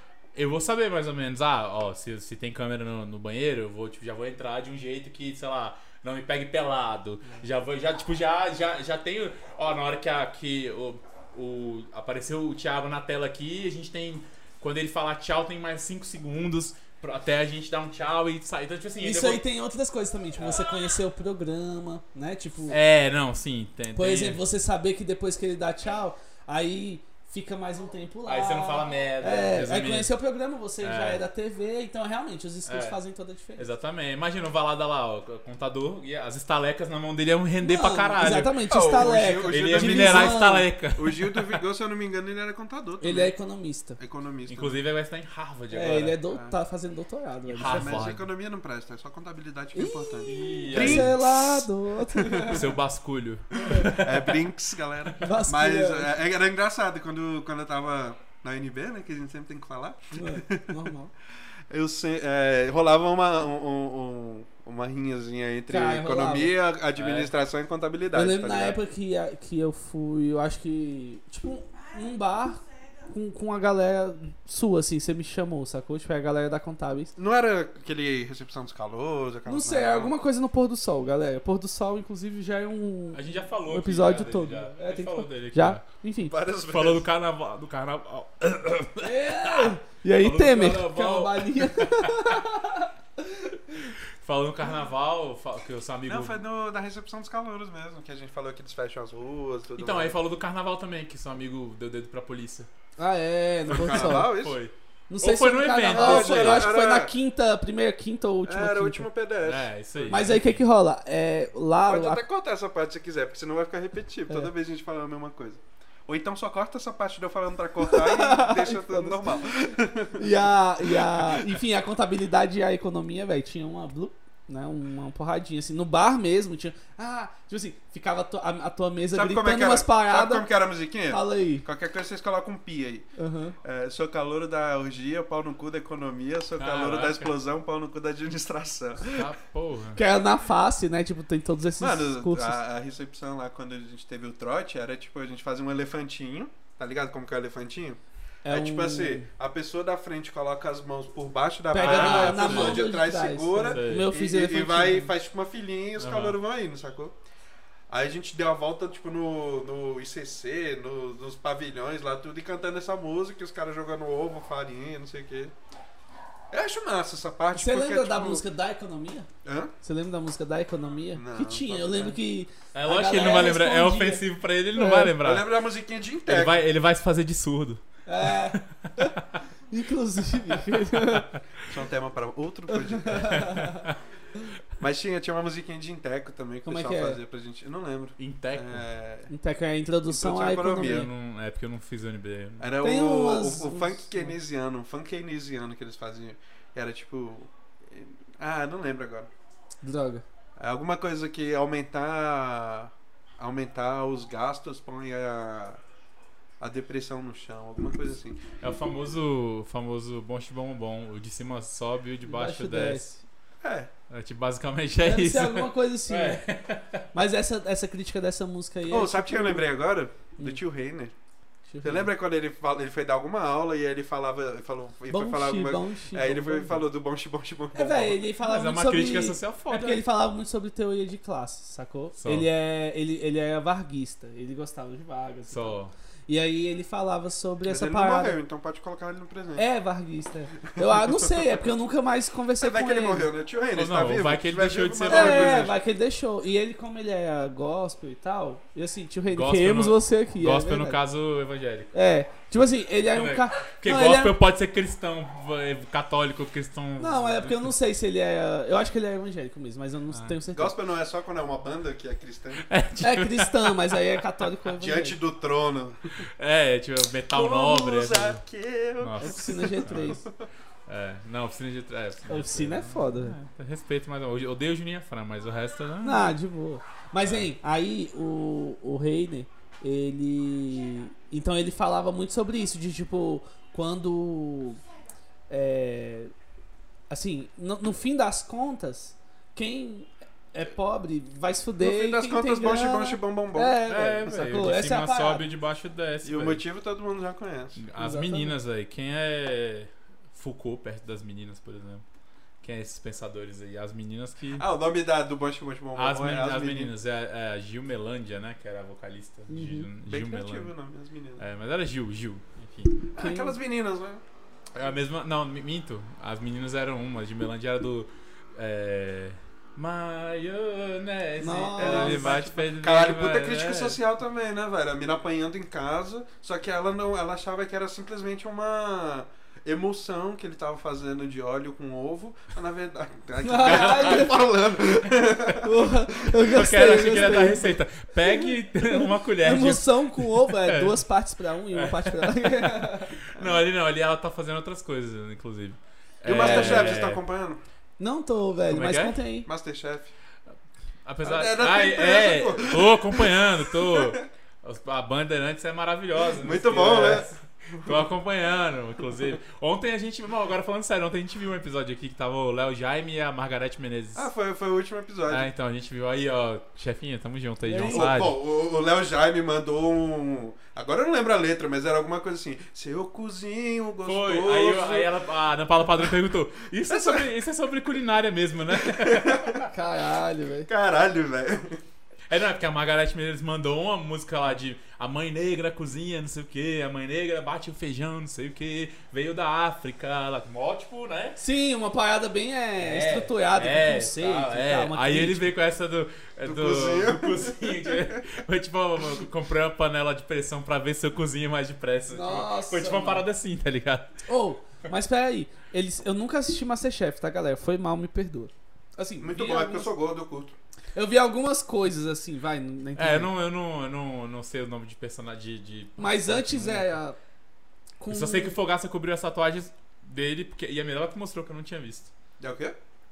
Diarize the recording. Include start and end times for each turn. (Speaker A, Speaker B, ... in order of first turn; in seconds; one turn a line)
Speaker A: 0.3-19.4
Speaker B: 19.0-22.8
Speaker A: 22.7-24.4
Speaker B: 23.9-33.7
Speaker A: 28.3-30.1
Speaker A: 30.8-31.2
Speaker A: 32.7-33.0
Speaker A: 33.6-41.6
Speaker B: 37.6-40.7
Speaker C: 38.7-40.4
Speaker C: 41.0-43.3
Speaker B: 43.0-44.0
Speaker C: 44.0-44.8
Speaker A: 44.5-46.2
Speaker B: 45.7-48.0
Speaker C: 46.3-46.5
Speaker A: 47.5-48.3
Speaker C: 47.6-51.4
Speaker B: 49.8-52.6
Speaker A: 50.3-51.6
Speaker C: 52.1-52.7
Speaker A: 52.4-54.5
Speaker B: 53.7-53.9
Speaker C: 53.9-60.7
Speaker B: 55.2-56.1
Speaker B: 60.1-61.1
Speaker C: 61.7-68.8
Speaker B: 65.7-66.5
Speaker A: 67.0-67.3
Speaker B: 68.1-77.1
Speaker C: 77.2-80.2
Speaker B: 79.5-86.3
Speaker A: 83.1-85.8
Speaker C: 86.2-87.0
Speaker A: 86.7-92.4
Speaker B: 89.0-93.9
Speaker A: 93.9-96.4
Speaker C: 96.1-100.2
Speaker A: 99.8-102.7
Speaker B: 103.0-104.3
Speaker C: 103.7-104.6
Speaker A: 103.7-106.7
Speaker B: 105.1-109.1
Speaker C: 105.9-107.1
Speaker C: 108.5-110.3
Speaker A: 109.4-110.6
Speaker B: 110.1-112.2
Speaker C: 111.9-120.3
Speaker B: 117.8-119.5
Speaker B: 120.1-130.5
Speaker C: 120.8-121.6
Speaker C: 129.1-133.1
Speaker B: 131.1-131.7
Speaker B: 133.2-133.6
Speaker C: 133.6-139.2
Speaker A: 136.6-137.3
Speaker A: 139.1-140.0
Speaker B: 140.0-142.6
Speaker C: 141.8-157.2
Speaker B: 148.4-149.3
Speaker B: 151.7-155.1
Speaker A: 151.8-152.8
Speaker A: 153.6-154.1
Speaker A: 156.0-156.4
Speaker C: 157.9-165.5
Speaker C: 166.5-168.4
Speaker B: 167.5-169.3
Speaker C: 169.4-169.7
Speaker B: 169.8-175.2
Speaker C: 171.1-172.2
Speaker A: 172.7-175.5
Speaker C: 175.2-176.6
Speaker A: 176.3-179.4
Speaker B: 178.1-179.1
Speaker B: 179.7-181.3
Speaker A: 180.7-181.4
Speaker C: 181.6-183.5
Speaker B: 182.7-183.8
Speaker A: 183.2-184.0
Speaker C: 184.8-189.3
Speaker B: 186.7-187.2
Speaker A: 188.2-188.9
Speaker B: 189.3-191.1
Speaker C: 190.1-191.1
Speaker A: 190.7-192.7
Speaker C: 192.6-199.3
Speaker B: 192.8-194.3
Speaker B: 199.8-200.2
Speaker C: 200.6-205.8
Speaker C: 206.6-208.5
Speaker A: 208.6-213.1
Speaker B: 212.3-213.2
Speaker C: 213.6-213.9
Speaker A: 214.1-217.1
Speaker B: 215.0-216.4
Speaker B: 217.1-219.7
Speaker C: 218.9-221.1
Speaker B: 221.7-222.1
Speaker C: 221.8-228.2
Speaker B: 225.1-226.8
Speaker B: 227.7-238.4
Speaker A: 228.4-230.0
Speaker A: 232.2-232.5
Speaker A: 235.5-235.9
Speaker C: 237.7-239.7
Speaker B: 239.6-243.3
Speaker C: 240.9-241.3
Speaker C: 242.6-245.8
Speaker A: 243.7-245.7
Speaker B: 245.1-251.0
Speaker A: 249.3-251.9
Speaker B: 251.9-254.3
Speaker A: 253.1-257.7
Speaker B: 257.0-260.8
Speaker A: 260.1-260.4
Speaker C: 260.5-262.6
Speaker A: 262.6-263.8
Speaker B: 263.0-265.2
Speaker C: 264.8-266.3
Speaker A: 266.2-268.4
Speaker C: 267.3-270.4
Speaker A: 269.0-270.2
Speaker B: 269.2-270.2
Speaker A: 270.9-276.3
Speaker B: 272.3-273.4
Speaker B: 276.0-284.8
Speaker A: 277.2-277.5
Speaker B: 285.5-286.3
Speaker B: 287.1-295.4
Speaker C: 291.8-293.8
Speaker A: 293.9-296.6
Speaker C: 296.2-297.8
Speaker A: 297.8-302.1
Speaker B: 298.0-298.6
Speaker A: 302.6-304.6
Speaker C: 304.6-306.9
Speaker A: 306.0-310.7
Speaker B: 309.5-309.9
Speaker C: 310.1-311.4
Speaker A: 311.4-313.0
Speaker C: 313.1-314.2
Speaker B: 313.2-313.6
Speaker A: 314.8-324.0
Speaker B: 321.4-322.4
Speaker C: 321.8-336.3
Speaker B: 333.4-334.4
Speaker A: 333.6-334.4
Speaker B: 335.5-343.2
Speaker A: 336.4-341.0
Speaker A: 341.7-347.2
Speaker C: 343.4-343.6
Speaker C: 346.2-347.6
Speaker B: 346.4-346.9
Speaker B: 348.0-349.5
Speaker A: 348.7-349.2
Speaker C: 349.4-350.1
Speaker A: 351.1-364.3
Speaker C: 351.2-354.2
Speaker C: 356.4-358.1
Speaker C: 364.2-365.5
Speaker A: 365.3-368.4
Speaker B: 367.6-368.1
Speaker C: 367.9-375.1
Speaker A: 374.1-379.7
Speaker C: 376.9-377.3
Speaker C: 378.8-379.6
Speaker B: 379.6-380.7
Speaker C: 380.7-381.8
Speaker A: 382.3-391.4
Speaker B: 391.4-395.5
Speaker A: 392.8-404.2
Speaker C: 396.4-398.2
Speaker B: 402.1-403.2
Speaker B: 404.3-409.9
Speaker C: 409.2-410.6
Speaker B: 410.9-413.3
Speaker A: 413.0-416.9
Speaker B: 416.0-417.2
Speaker B: 418.0-418.6
Speaker A: 418.1-422.1
Speaker C: 422.4-422.8